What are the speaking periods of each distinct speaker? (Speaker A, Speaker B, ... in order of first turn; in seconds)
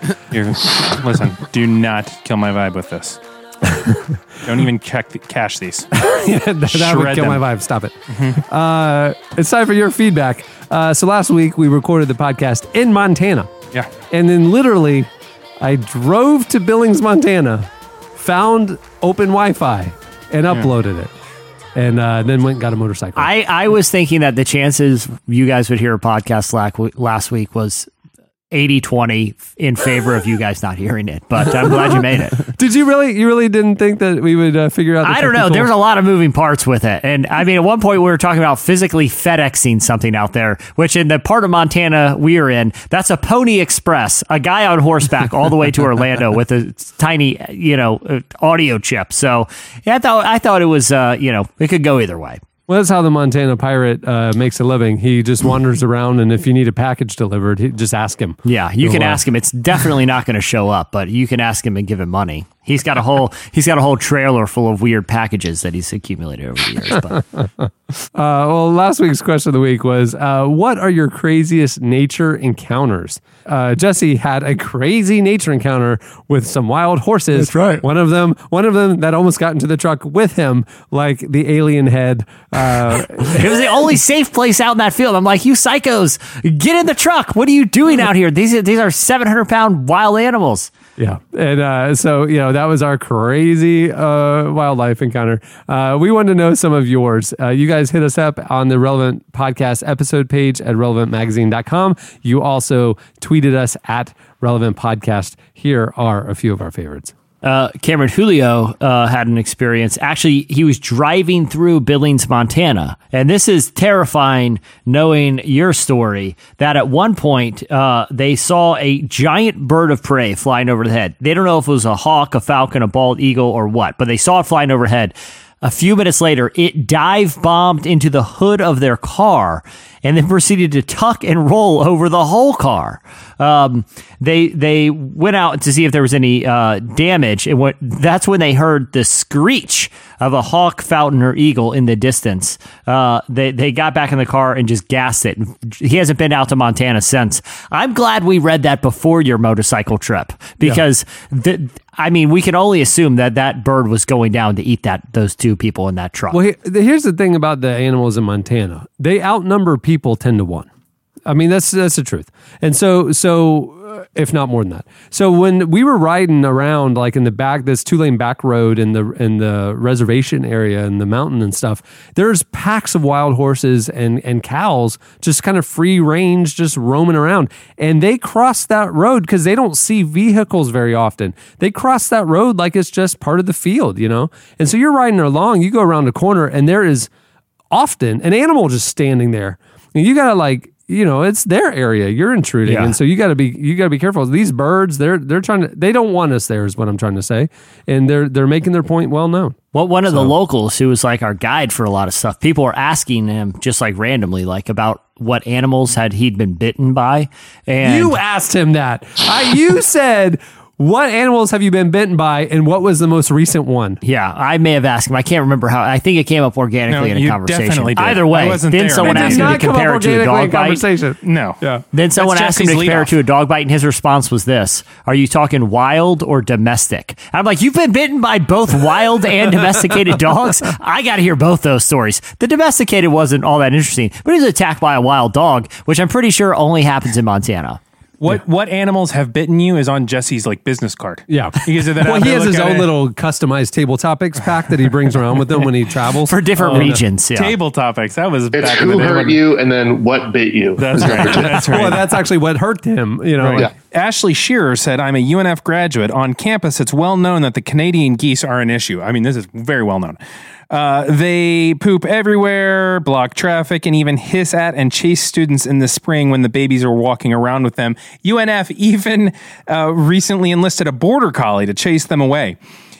Speaker A: 0.3-3.2, 4.4-5.9, 6.7-7.4, 8.1-8.4, 216.9-219.6, 221.2-221.6, 222.2-223.1, 238.2-242.9, 246.7-249.4, 250.8-252.1, 253.4-260.2, 260.7-272.6
Speaker B: 6.0-13.5, 14.1-15.1, 15.6-21.1, 21.7-23.3, 32.5-35.7, 52.7-59.2, 67.4-83.6, 91.0-107.1, 156.3-160.7, 161.2-187.1, 187.7-199.6, 207.8-214.0, 219.0-221.8, 241.3-247.0, 251.3-253.7
Speaker C: 23.2-27.9, 28.5-32.4, 35.0-52.4, 58.4-67.2, 83.1-90.7, 107.4-156.4, 192.7-192.9, 199.7-208.2, 214.0-220.8, 221.9-237.8, 246.3-247.5
Speaker D: 248.5-251.7